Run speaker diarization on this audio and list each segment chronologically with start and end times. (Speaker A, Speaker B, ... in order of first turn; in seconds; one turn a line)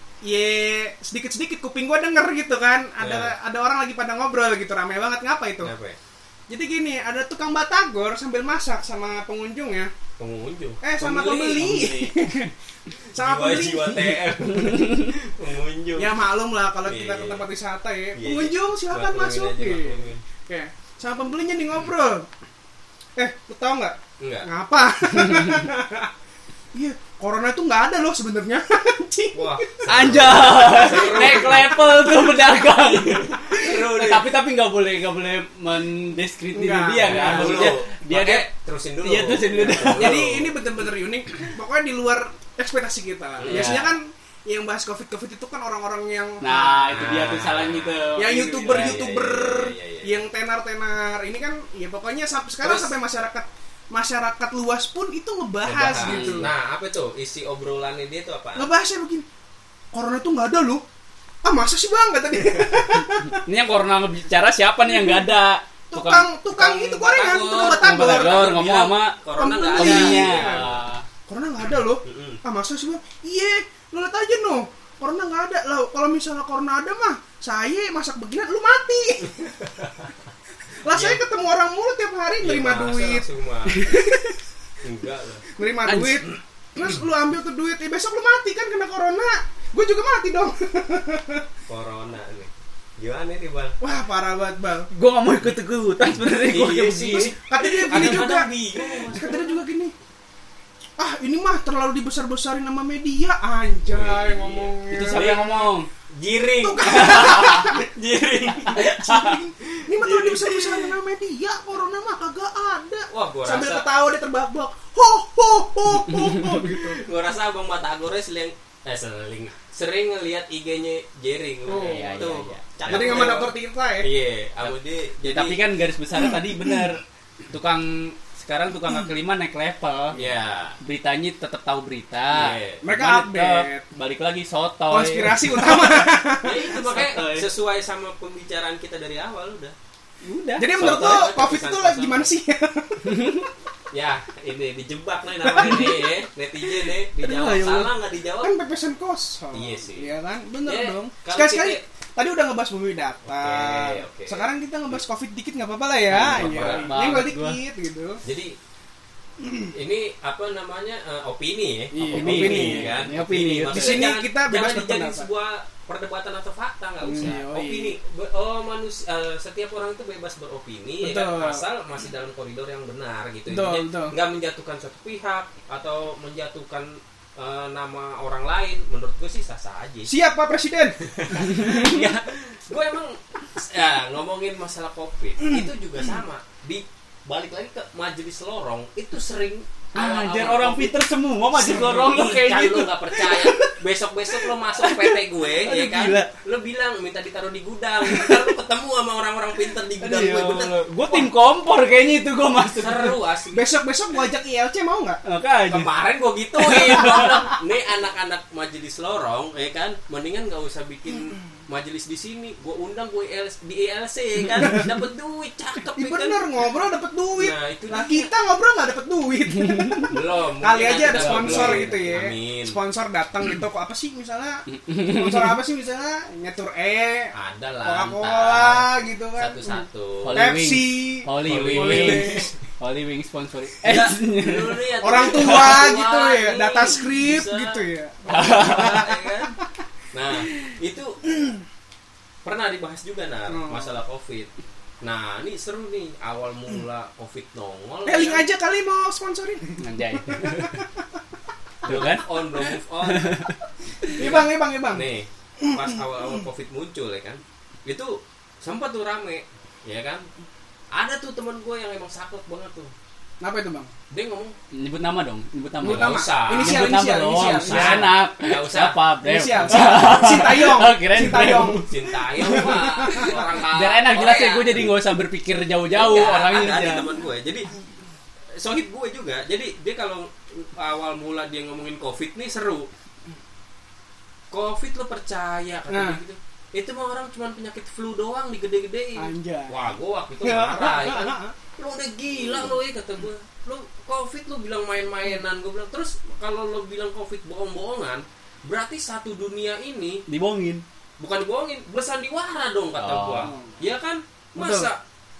Speaker A: 0.2-5.7
Speaker B: 3.0-3.3
Speaker B: 5.6-6.0
Speaker A: 6.5-9.9
Speaker B: 10.2-11.7
Speaker A: 10.8-12.5
Speaker C: 11.6-12.4
Speaker A: 13.1-14.1
Speaker B: 13.1-16.2
Speaker C: 14.4-15.1
Speaker A: 16.0-22.3
Speaker B: 16.8-17.4
Speaker B: 18.1-20.2
Speaker A: 23.2-26.1
Speaker B: 24.2-24.5
Speaker C: 25.1-25.6
Speaker A: 26.7-32.4
Speaker B: 29.3-32.1
Speaker C: 29.9-38.5
Speaker B: 33.5-34.3
Speaker A: 36.5-37.7
Speaker B: 37.0-40.5
Speaker C: 39.0-40.3
Speaker A: 39.9-47.0
Speaker B: 43.4-43.8
Speaker C: 43.5-43.9
Speaker C: 46.4-49.0
Speaker B: 46.9-48.1
Speaker A: 48.1-56.5
Speaker B: 48.6-50.2
Speaker B: 52.6-52.9
Speaker B: 55.6-58.7
Speaker C: 56.0-56.5
Speaker A: 58.5-59.2
Speaker A: 59.9-60.8
Speaker A: 61.4-63.4
Speaker C: 63.0-66.3
Speaker A: 64.8-65.3
Speaker A: 65.9-68.4
Speaker B: 66.5-70.8
Speaker C: 67.5-69.2
Speaker A: 69.4-70.7
Speaker C: 69.7-71.0
Speaker A: 71.3-79.5
Speaker B: 72.0-72.4
Speaker B: 79.4-80.1
Speaker A: 80.8-83.3
Speaker B: 80.9-81.2
Speaker B: 82.4-83.9
Speaker C: 83.7-84.4
Speaker B: 84.8-85.4
Speaker A: 85.5-91.5
Speaker C: 85.8-86.2
Speaker B: 91.7-93.8
Speaker A: 93.8-94.9
Speaker C: 94.9-97.3
Speaker B: 96.5-99.6
Speaker A: 97.1-99.9
Speaker C: 97.9-98.2
Speaker A: 101.0-105.7
Speaker B: 103.9-105.3
Speaker C: 104.9-105.9
Speaker B: 106.1-108.8
Speaker A: 106.6-107.9
Speaker C: 106.8-107.8
Speaker A: 108.5-117.0
Speaker C: 108.6-109.4
Speaker B: 110.0-110.4
Speaker B: 113.1-113.8
Speaker C: 115.9-116.8
Speaker B: 117.0-123.5
Speaker A: 121.7-124.1
Speaker C: 121.8-123.4
Speaker B: 124.0-125.6
Speaker C: 125.2-130.2
Speaker A: 126.2-126.9
Speaker B: 130.1-130.8
Speaker C: 130.8-136.0
Speaker B: 132.3-132.8
Speaker A: 132.8-133.8
Speaker A: 134.9-136.9
Speaker B: 136.4-139.7
Speaker C: 136.6-137.5
Speaker C: 140.2-141.2
Speaker A: 140.6-143.3
Speaker B: 140.7-142.3
Speaker C: 143.0-143.5
Speaker B: 143.9-148.5
Speaker A: 145.4-146.1
Speaker C: 145.6-145.9
Speaker C: 147.2-147.9
Speaker A: 148.4-158.2
Speaker B: 149.5-150.1
Speaker B: 150.6-151.8
Speaker B: 153.3-154.5
Speaker C: 156.1-157.6
Speaker B: 156.2-156.9
Speaker B: 158.2-158.5
Speaker B: 159.7-180.1
Speaker A: 161.9-163.1
Speaker C: 162.0-164.1
Speaker A: 163.7-165.3
Speaker A: 167.0-167.9
Speaker A: 171.0-171.6
Speaker A: 173.5-174.1
Speaker A: 180.1-180.9
Speaker B: 181.0-190.9
Speaker C: 181.3-182.1
Speaker C: 189.9-193.7
Speaker B: 191.6-200.8
Speaker C: 194.3-196.3
Speaker C: 198.0-198.4
Speaker C: 200.0-203.2
Speaker B: 202.8-203.6
Speaker A: 203.5-205.2
Speaker C: 205.2-205.9
Speaker B: 205.7-216.4
Speaker C: 206.6-207.5
Speaker A: 214.6-214.9
Speaker A: 215.9-227.3
Speaker B: 217.4-218.3
Speaker C: 219.5-220.1
Speaker B: 220.1-222.8
Speaker C: 221.2-222.0
Speaker C: 224.7-225.6
Speaker B: 227.3-230.5
Speaker A: 227.8-229.8
Speaker C: 230.2-234.8
Speaker A: 230.3-232.5
Speaker B: 231.5-232.5
Speaker B: 233.8-239.5
Speaker A: 235.0-239.5
Speaker C: 235.4-235.7
Speaker C: 238.3-239.0
Speaker B: 240.1-241.2
Speaker B: 242.4-244.5
Speaker A: 243.5-244.0
Speaker B: 245.0-248.4
Speaker A: 248.1-251.2
Speaker C: 249.8-250.8
Speaker B: 251.8-253.4
Speaker C: 251.8-254.2
Speaker A: 254.1-255.1
Speaker B: 254.2-260.2
Speaker A: 255.6-256.4
Speaker B: 260.9-262.9
Speaker A: 263.4-263.9
Speaker B: 264.1-264.5
Speaker C: 264.7-271.9
Speaker A: 265.8-268.1
Speaker B: 265.9-269.0
Speaker A: 269.2-271.8
Speaker B: 269.6-270.4
Speaker B: 271.7-274.9
Speaker A: 272.3-273.4
Speaker C: 272.4-277.1
Speaker B: 275.9-277.7
Speaker B: 278.6-282.9
Speaker B: 284.5-300.2
Speaker A: 285.9-286.2
Speaker A: 289.2-289.8
Speaker A: 290.4-291.5
Speaker A: 292.4-292.7
Speaker C: 300.3-300.8
Speaker B: 301.2-305.0
Speaker C: 303.0-303.5
Speaker A: 303.4-303.7
Speaker A: 304.6-304.9